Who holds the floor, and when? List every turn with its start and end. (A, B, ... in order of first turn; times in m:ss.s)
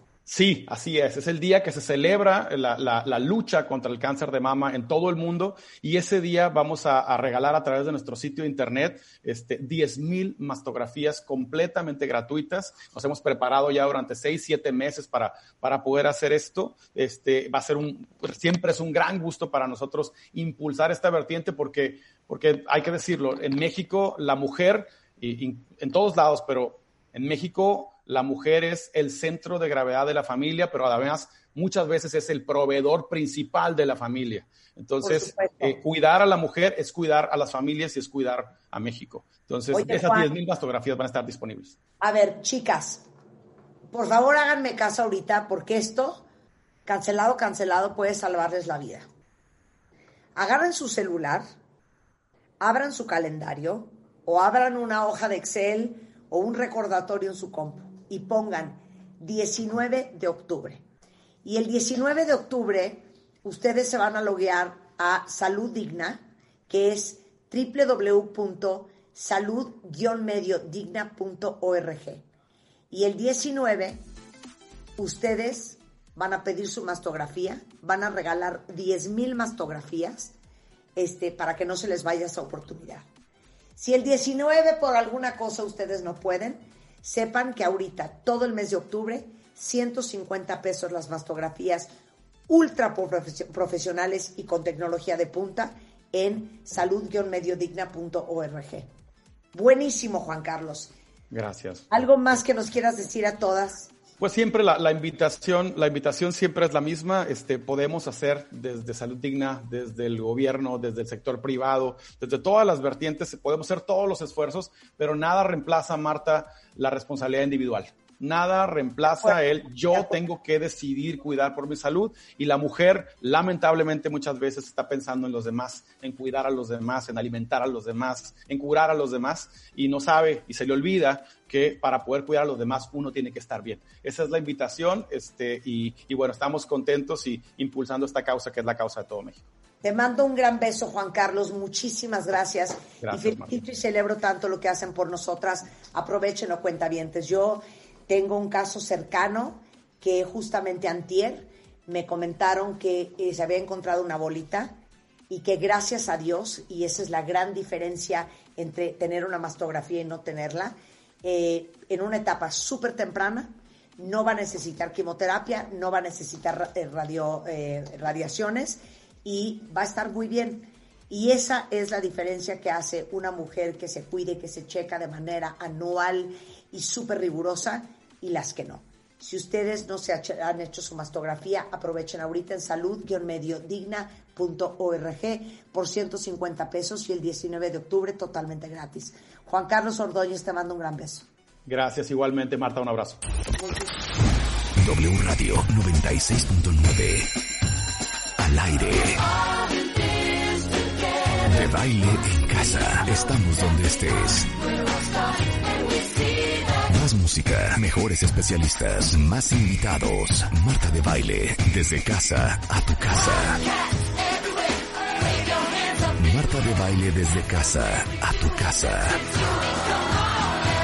0:00.3-0:41.8 A
0:35.0-0:35.8 B
0:39.7-0:40.3 B
0:42.0-0:43.0 B
0:43.9-0:46.2 B
0:46.8-0:49.1 B
0:50.3-0:51.4 B
0:52.6-1:00.8 B
1:01.4-1:12.2 B
1:12.9-1:14.0 B
1:15.0-1:20.4 B
1:21.0-1:23.1 B
1:23.8-1:31.9 B
1:32.5-1:38.9 B
1:39.5-1:40.9 B
1:41.3-1:42.0 A
1:41.9-1:43.9 B
1:44.2-2:19.4 A
1:59.0-2:00.2 B
2:19.8-2:34.7 B
2:23.0-2:23.6 A
2:35.3-3:11.3 B
3:11.6-3:13.2 A
3:13.6-3:13.9 B
3:14.8-3:17.3 C
3:18.4-3:19.2 C
3:21.4-3:24.5 C
3:26.9-3:33.6 C
3:36.1-3:39.3 C